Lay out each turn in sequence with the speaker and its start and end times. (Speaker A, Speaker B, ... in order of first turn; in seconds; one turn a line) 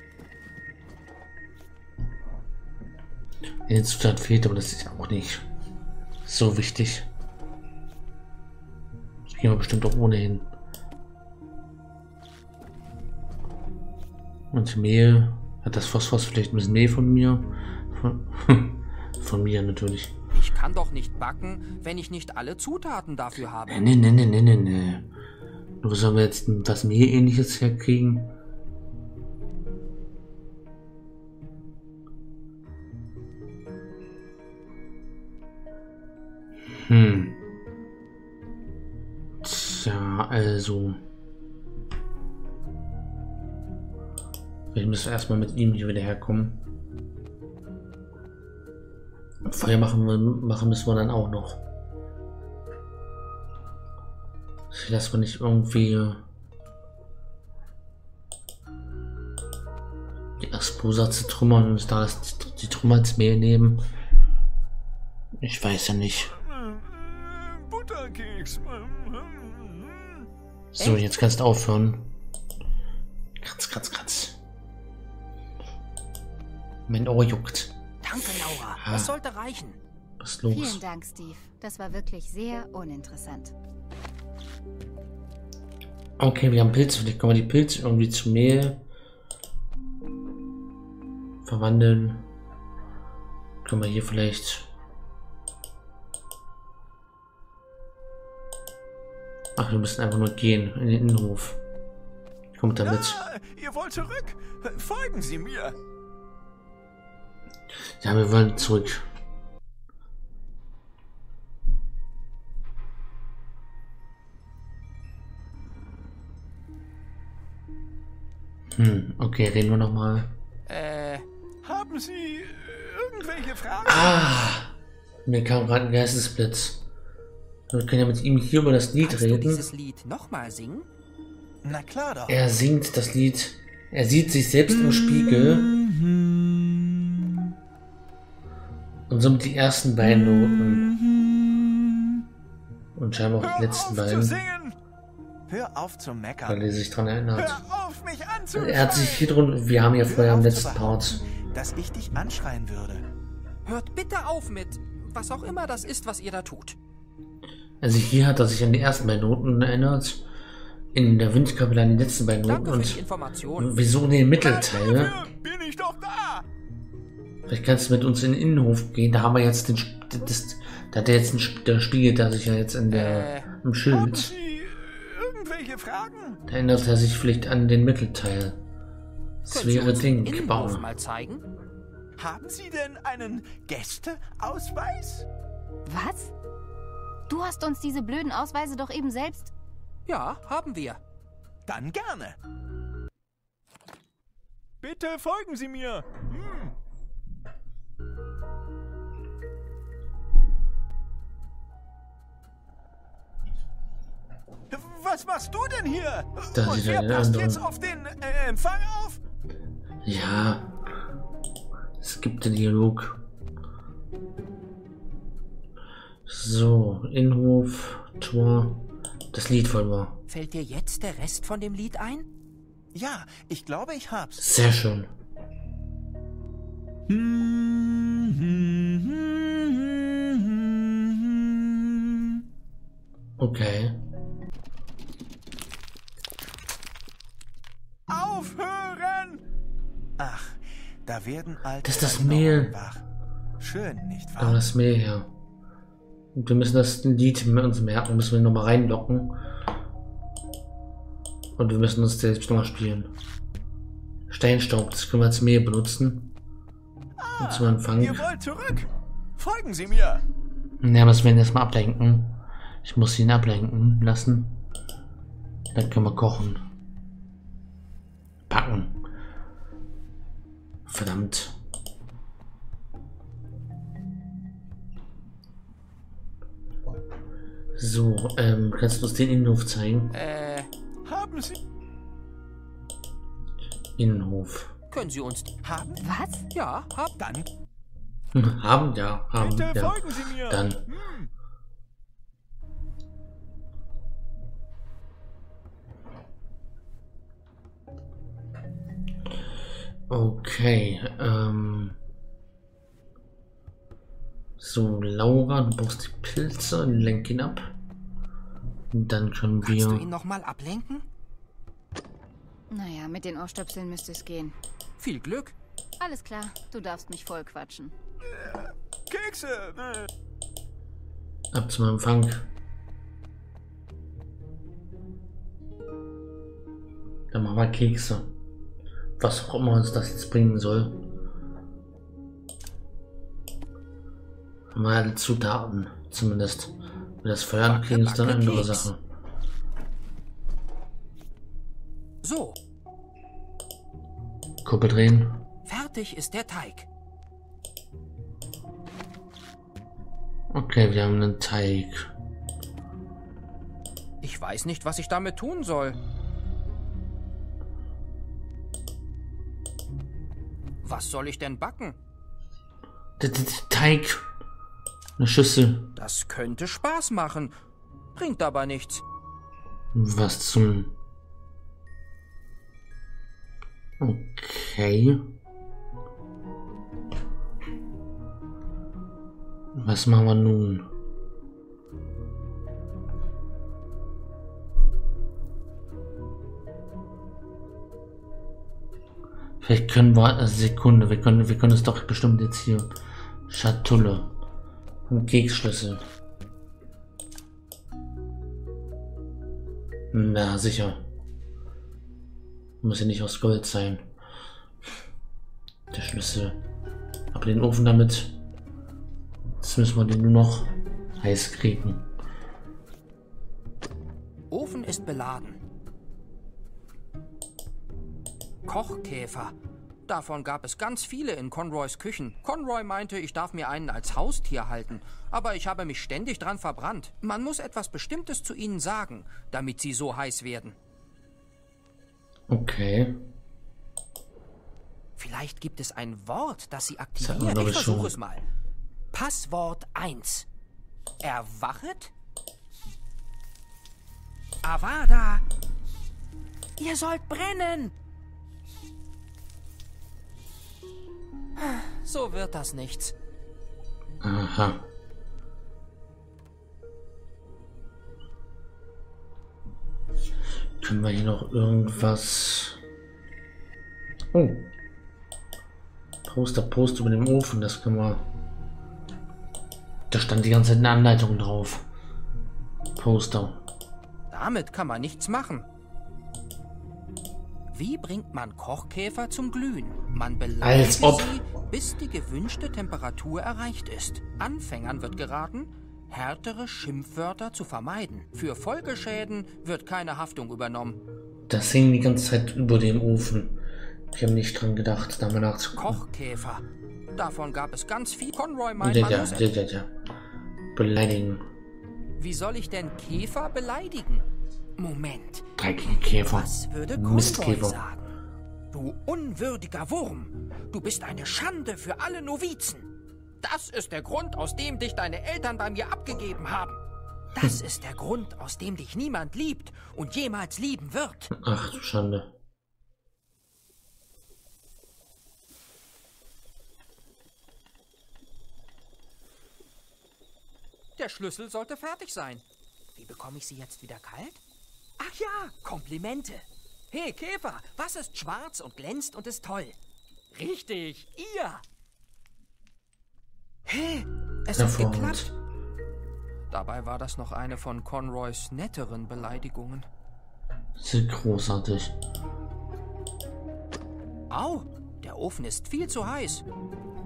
Speaker A: 3.6-5.4
Speaker A: 6.2-7.1
Speaker A: 9.2-10.5
Speaker A: 14.5-20.1
Speaker B: 20.3-23.9
Speaker A: 23.7-25.1
Speaker A: 25.8-28.3
Speaker A: 36.7-37.4
Speaker A: 39.4-41.0
Speaker A: 44.7-46.6
Speaker A: 49.4-51.6
Speaker A: 54.7-56.2
Speaker A: 60.4-63.8
Speaker A: 65.4-66.3
Speaker C: 66.3-70.3
Speaker A: 70.7-72.1
Speaker B: 70.8-71.0
Speaker A: 73.4-74.4
Speaker A: 76.9-79.1
Speaker B: 78.0-79.8
Speaker A: 80.2-80.8
Speaker D: 80.5-83.5
Speaker A: 86.2-88.8
Speaker A: 91.4-92.3
Speaker A: 93.6-94.7
Speaker A: 99.5-101.6
Speaker A: 102.5-103.2
Speaker C: 102.8-105.8
Speaker A: 108.0-109.0
Speaker A: 118.7-120.3
Speaker B: 120.7-121.2
Speaker C: 121.6-124.2
Speaker A: 123.9-124.7
Speaker A: 125.2-126.8
Speaker A: 127.7-129.7
Speaker B: 129.0-130.9
Speaker C: 131.6-132.4
Speaker A: 132.3-135.7
Speaker C: 134.7-137.4
Speaker A: 139.1-140.9
Speaker C: 140.2-142.2
Speaker A: 142.9-144.4
Speaker C: 143.4-144.8
Speaker C: 145.5-146.6
Speaker A: 146.4-147.6
Speaker C: 147.4-149.4
Speaker A: 148.5-151.2
Speaker C: 150.0-153.0
Speaker B: 153.7-156.8
Speaker A: 157.8-160.2
Speaker A: 160.9-163.0
Speaker B: 162.4-163.7
Speaker A: 163.6-165.2
Speaker C: 164.4-166.4
Speaker A: 167.5-174.3
Speaker B: 172.9-173.5
Speaker C: 173.9-176.4
Speaker A: 176.5-178.6
Speaker A: 179.4-180.8
Speaker B: 179.5-181.4
Speaker C: 182.2-185.2
Speaker D: 185.9-186.3
Speaker D: 187.3-189.5
Speaker B: 190.1-191.0
Speaker C: 191.7-192.4
Speaker C: 194.8-196.7
Speaker C: 204.7-209.2
Speaker A: 206.5-207.6
Speaker A: 210.0-210.8
Speaker A: 212.0-213.2
Speaker A: 216.2-220.2
Speaker B: 220.3-222.2
Speaker C: 222.9-224.7
Speaker A: 224.4-225.1
Speaker C: 227.1-232.4
Speaker A: 233.4-234.0
Speaker C: 238.1-239.4
Speaker C: 240.2-243.0
Speaker A: 241.8-242.7
Speaker C: 243.6-244.6
Speaker A: 244.4-245.3
Speaker A: 246.3-249.4
Speaker A: 251.6-253.1
Speaker A: 254.3-256.4
Speaker C: 257.2-260.2
Speaker A: 257.4-258.3
Speaker A: 260.8-264.6
Speaker A: 265.7-266.6
Speaker A: 268.5-269.0
Speaker A: 270.9-271.6
Speaker A: 277.8-280.1
Speaker B: 280.1-280.7
Speaker C: 281.0-281.6
Speaker A: 284.0-284.7
Speaker B: 284.9-285.5
Speaker C: 285.6-286.1
Speaker D: 286.0-286.4
Speaker B: 286.5-287.2
Speaker C: 287.2-287.5
Speaker A: 288.3-290.9
Speaker C: 289.4-291.3
Speaker A: 300.1-302.0
Speaker A: 304.6-307.7
Speaker A: 308.9-310.1
Speaker B: 309.6-311.1
Speaker D: 312.7-314.6
Speaker B: 315.0-315.5
Speaker D: 316.0-317.9
Speaker C: 318.2-320.1
Speaker A: 321.5-322.5
Speaker A: 327.3-328.3
Speaker A: 329.2-331.0
Speaker A: 334.7-339.0
Speaker B: 337.6-338.9
Speaker B: 342.2-342.6
Speaker A: 344.6-345.4
Speaker B: 345.6-346.9
Speaker A: 350.5-352.1
Speaker B: 354.2-356.0
Speaker B: 360.8-362.0
Speaker A: 363.2-364.2
Speaker A: 365.2-365.9
Speaker B: 365.9-367.5
Speaker B: 368.1-369.0
Speaker A: 369.9-370.9
Speaker A: 374.0-375.3
Speaker A: 379.7-380.9
Speaker A: 389.6-392.9
Speaker A: 393.5-394.4
Speaker A: 395.1-396.0
Speaker A: 400.1-401.0
Speaker A: 402.8-404.1
Speaker A: 405.9-406.6
Speaker A: 407.3-408.4
Speaker A: 409.6-412.1
Speaker B: 414.5-415.6
Speaker B: 418.6-419.5
Speaker B: 420.1-430.8
Speaker A: 432.5-433.2
Speaker B: 435.2-438.4
Speaker A: 437.2-438.1
Speaker B: 439.1-440.5
Speaker B: 441.2-442.1
Speaker B: 444.6-445.4
Speaker B: 446.8-447.9
Speaker B: 451.6-453.1
Speaker A: 454.2-454.9
Speaker A: 460.8-462.8
Speaker A: 464.3-464.7
Speaker A: 466.2-468.2
Speaker A: 470.1-471.9
Speaker A: 473.0-473.6
Speaker B: 474.3-475.6
Speaker B: 477.7-491.0
Speaker A: 480.6-481.4
Speaker A: 491.5-493.6
Speaker A: 494.1-496.0
Speaker B: 495.7-499.5
Speaker A: 498.8-499.9
Speaker A: 500.7-501.4
Speaker B: 502.2-504.2
Speaker B: 504.8-505.5
Speaker A: 505.6-507.8
Speaker B: 506.2-508.1
Speaker B: 508.7-512.9
Speaker B: 513.4-516.8
Speaker B: 517.3-521.3
Speaker A: 521.3-522.3
Speaker B: 531.0-532.4
Speaker B: 532.9-534.4
Speaker B: 535.0-539.8
Speaker B: 540.3-541.6
Speaker B: 543.7-545.3
Speaker A: 544.5-545.3
Speaker B: 546.5-549.9
Speaker A: 550.8-552.0
Speaker B: 554.3-556.4